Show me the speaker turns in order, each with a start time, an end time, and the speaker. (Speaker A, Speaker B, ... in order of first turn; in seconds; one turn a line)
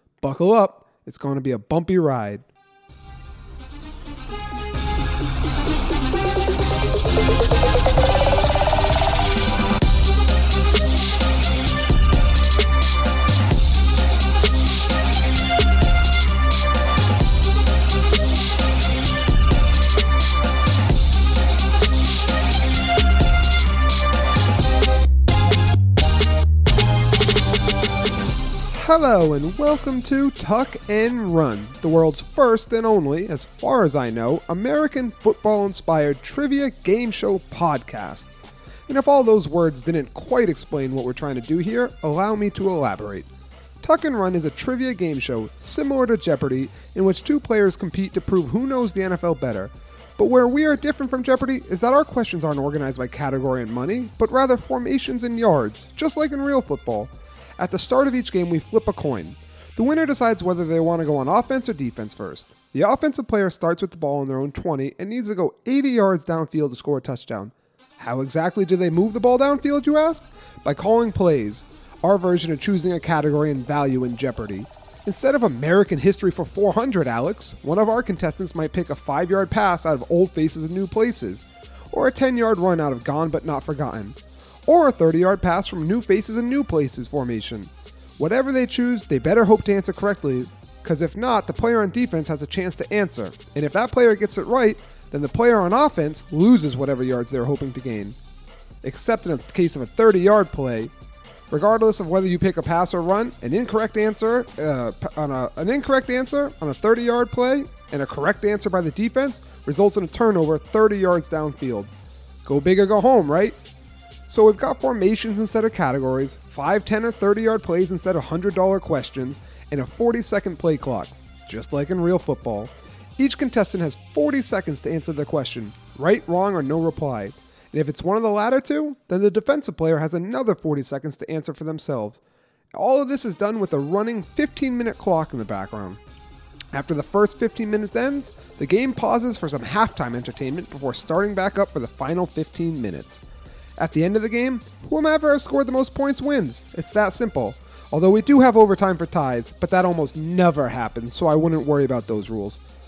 Speaker A: 0.2-2.4
Speaker A: 28.7-38.3
Speaker A: 38.9-43.3
Speaker A: 43.8-98.2
Speaker A: 98.8-100.9
Speaker A: 101.5-111.9
Speaker A: 112.4-113.6
Speaker A: 114.3-132.2
Speaker A: 132.7-136.0
Speaker A: 136.7-143.2
Speaker A: 143.8-152.6